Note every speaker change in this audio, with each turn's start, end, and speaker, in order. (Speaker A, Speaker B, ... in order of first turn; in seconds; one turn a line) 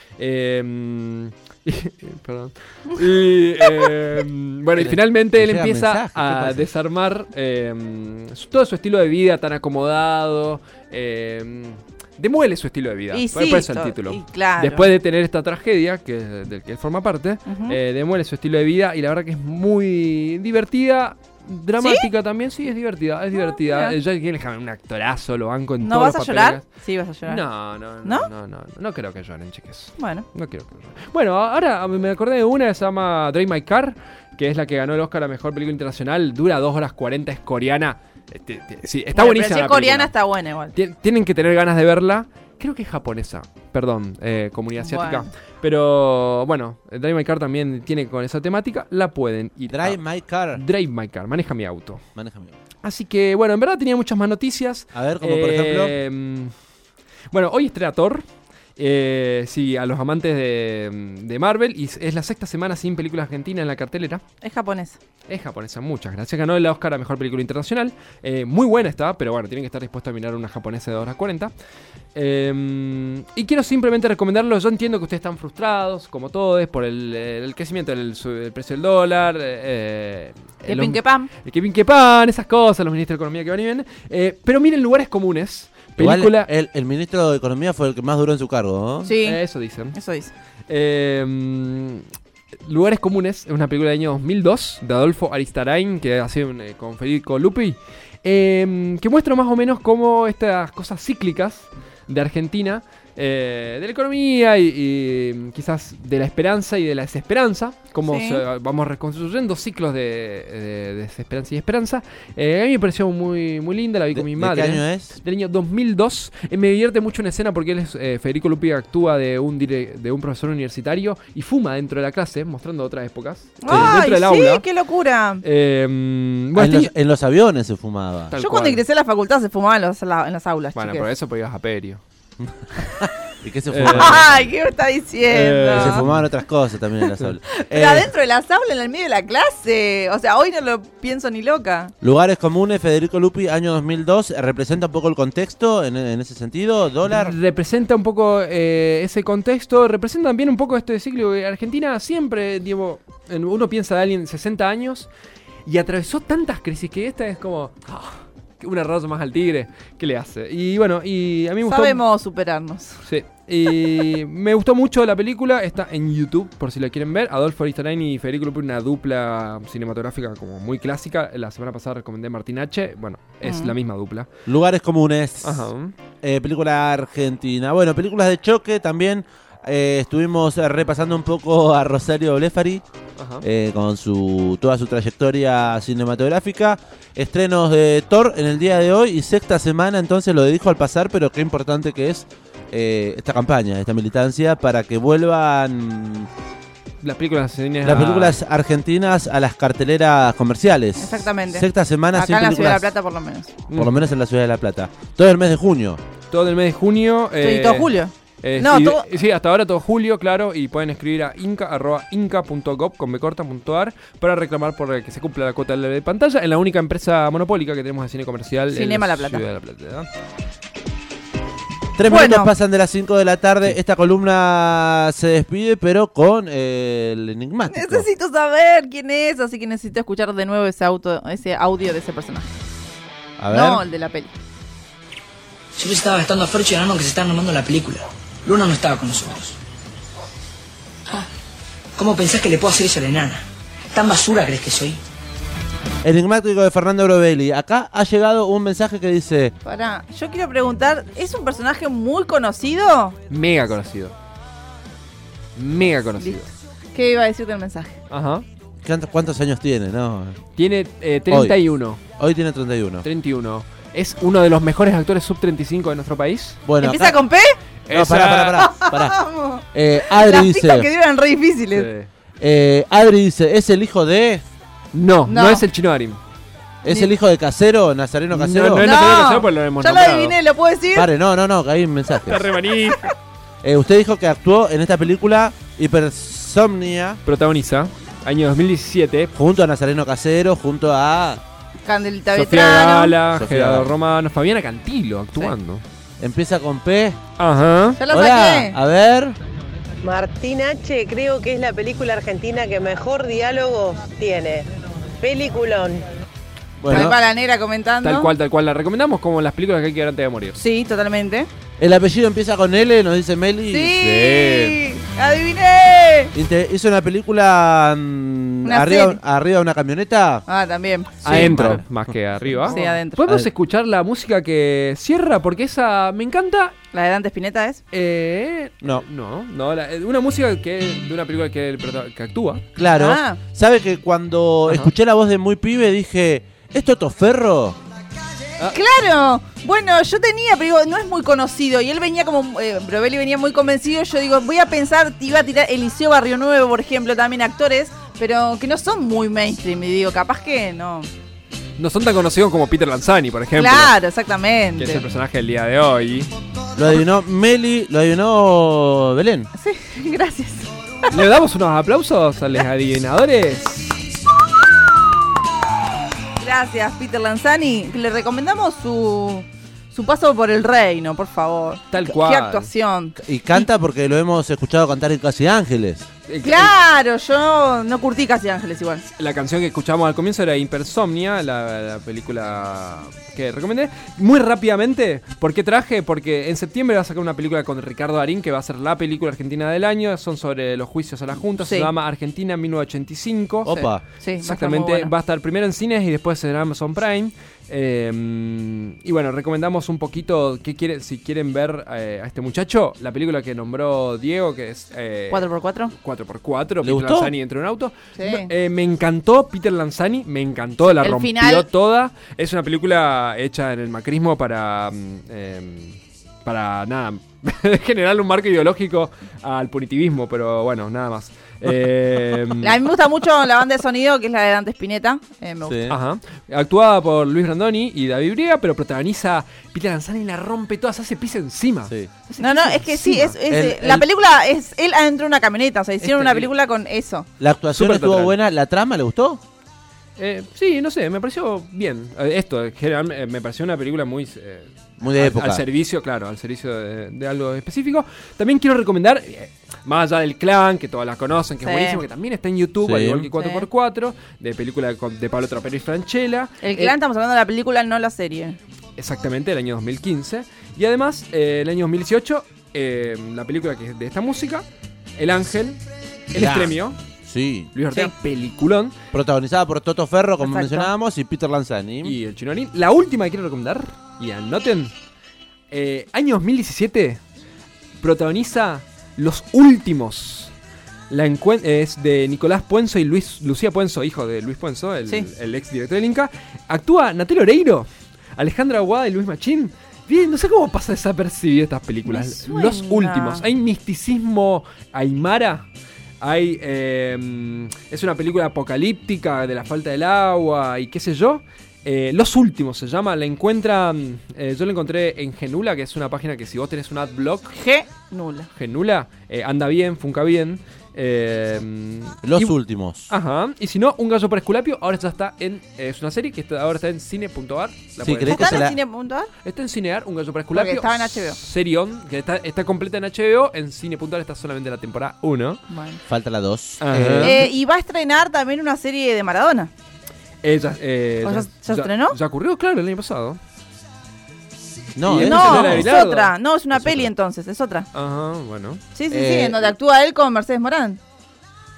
Speaker A: 0.2-26.6
Speaker B: 4.8-6.7
Speaker C: 13.1-14.9
Speaker C: 17.5-17.8
Speaker C: 21.8-22.1
Speaker C: 23.3-23.9
Speaker C: 25.8-27.4
Speaker A: 27.2-40.1
Speaker C: 30.0-30.2
Speaker C: 39.1-40.7
Speaker A: 40.7-50.0
Speaker C: 44.8-45.3
Speaker B: 49.7-50.6
Speaker A: 50.5-52.0
Speaker B: 52.1-52.5
Speaker A: 52.8-56.5
Speaker B: 54.9-55.9
Speaker A: 57.3-58.2
Speaker A: 58.8-64.2
Speaker C: 64.4-65.0
Speaker A: 65.3-71.5
Speaker A: 72.1-86.5
Speaker C: 80.7-81.3
Speaker B: 86.0-89.1
Speaker C: 89.0-89.4
Speaker A: 89.2-90.0
Speaker C: 89.9-90.3
Speaker A: 90.7-92.0
Speaker A: 92.6-124.6
Speaker C: 108.1-108.4
Speaker B: 114.1-115.1
Speaker C: 123.6-125.4
Speaker B: 123.7-124.0
Speaker A: 125.4-126.9
Speaker B: 126.5-128.3
Speaker A: 128.3-128.8
Speaker C: 128.4-131.1
Speaker A: 130.7-132.0
Speaker B: 132.4-134.5
Speaker A: 133.7-134.3
Speaker C: 133.9-136.1
Speaker A: 135.3-136.2
Speaker B: 135.6-138.1
Speaker C: 137.5-141.9
Speaker B: 142.0-147.3
Speaker A: 147.1-155.1
Speaker A: 155.7-162.0
Speaker C: 161.7-163.0
Speaker A: 163.0-174.3
Speaker C: 173.4-173.7
Speaker B: 174.5-175.7
Speaker A: 175.4-175.9
Speaker B: 176.2-182.8
Speaker A: 183.2-183.4
Speaker B: 183.4-196.3
Speaker A: 197.0-198.3
Speaker B: 197.8-202.9
Speaker C: 201.0-203.5
Speaker B: 203.7-206.0
Speaker A: 206.3-220.1
Speaker C: 207.4-209.1
Speaker C: 218.7-219.4
Speaker B: 222.0-228.1
Speaker C: 222.1-222.5
Speaker C: 227.7-232.5
Speaker B: 233.4-233.8
Speaker C: 233.5-234.3
Speaker D: 235.7-239.6
Speaker D: 242.0-245.0
Speaker B: 246.0-249.5
Speaker C: 249.6-253.2
Speaker A: 253.3-254.1
Speaker A: 255.6-256.5
Speaker C: 256.9-258.0
Speaker A: 258.1-258.4
Speaker B: 258.8-260.4
Speaker A: 260.6-262.0
Speaker B: 261.3-261.5
Speaker B: 262.2-263.1
Speaker A: 263.0-266.6
Speaker B: 266.6-267.2
Speaker C: 266.8-267.6
Speaker A: 267.9-268.7
Speaker B: 267.9-269.2
Speaker C: 268.5-271.9
Speaker B: 269.7-270.9
Speaker A: 271.7-272.1
Speaker B: 272.4-274.4
Speaker A: 274.9-276.2
Speaker C: 275.3-275.6
Speaker B: 276.8-278.9
Speaker A: 278.3-280.4
Speaker C: 278.8-281.1
Speaker B: 280.9-282.5
Speaker A: 282.2-283.1
Speaker B: 283.6-287.2
Speaker A: 287.2-289.3
Speaker B: 289.3-291.4
Speaker C: 291.9-293.1
Speaker A: 292.3-295.8
Speaker B: 293.3-293.9
Speaker B: 296.2-297.2
Speaker A: 297.4-298.0
Speaker C: 298.0-298.8
Speaker B: 298.1-299.4
Speaker E: 300.0-306.0
Speaker B: 306.8-307.1
Speaker C: 306.9-308.3
Speaker A: 308.0-310.6
Speaker C: 310.6-311.5
Speaker B: 311.8-314.1
Speaker C: 313.7-316.3
Speaker A: 314.0-314.8
Speaker B: 316.3-320.4
Speaker C: 318.6-319.2
Speaker C: 320.5-321.8
Speaker B: 321.2-321.9
Speaker A: 321.2-326.7
Speaker B: 322.6-323.5
Speaker C: 322.6-323.2
Speaker C: 326.9-327.8
Speaker A: 327.9-332.6
Speaker B: 332.8-337.8
Speaker C: 332.9-333.4
Speaker C: 338.7-351.1
Speaker A: 351.8-353.9
Speaker C: 353.6-355.0
Speaker A: 354.8-356.3
Speaker B: 356.7-359.5
Speaker C: 359.6-360.7
Speaker A: 361.1-363.9
Speaker C: 366.4-373.6
Speaker A: 371.9-372.7
Speaker B: 373.2-376.1
Speaker A: 376.3-376.7
Speaker C: 376.4-379.0
Speaker A: 379.2-393.7
Speaker C: 391.6-391.9
Speaker B: 393.6-394.0
Speaker C: 393.7-395.1
Speaker A: 394.4-422.8
Speaker C: 405.3-405.9
Speaker B: 406.8-407.3
Speaker C: 408.2-408.5
Speaker C: 411.0-411.6
Speaker C: 422.6-425.8
Speaker B: 425.6-425.9
Speaker A: 425.9-433.3
Speaker C: 432.4-437.3
Speaker B: 433.5-434.1
Speaker A: 436.0-436.5
Speaker B: 437.4-439.4
Speaker A: 437.8-438.3
Speaker A: 440.2-456.9
Speaker B: 445.0-445.6
Speaker C: 451.6-452.0
Speaker B: 452.8-453.3
Speaker C: 453.4-453.6
Speaker C: 456.6-458.6
Speaker A: 459.0-464.6
Speaker A: 465.2-465.8
Speaker A: 466.3-467.0
Speaker B: 466.3-467.7
Speaker A: 467.7-468.9
Speaker B: 469.1-472.2
Speaker C: 470.4-470.9
Speaker A: 472.0-474.9
Speaker A: 475.7-477.2
Speaker A: 478.0-480.5
Speaker A: 481.1-495.6
Speaker C: 492.1-493.4
Speaker A: 496.2-507.5
Speaker C: 507.5-508.5
Speaker A: 508.6-512.5
Speaker B: 512.2-513.1
Speaker A: 513.1-518.7
Speaker B: 518.0-518.8
Speaker C: 518.3-519.3
Speaker A: 519.4-525.6
Speaker C: 520.5-521.4
Speaker C: 525.7-526.0
Speaker B: 526.1-527.5
Speaker A: 526.8-527.5
Speaker C: 527.2-529.7
Speaker A: 530.4-533.4
Speaker C: 531.2-532.1
Speaker B: 535.0-535.9
Speaker A: 535.1-536.3
Speaker C: 535.2-537.9
Speaker B: 536.8-537.0
Speaker A: 537.9-538.8
Speaker C: 538.9-541.0
Speaker B: 539.1-539.7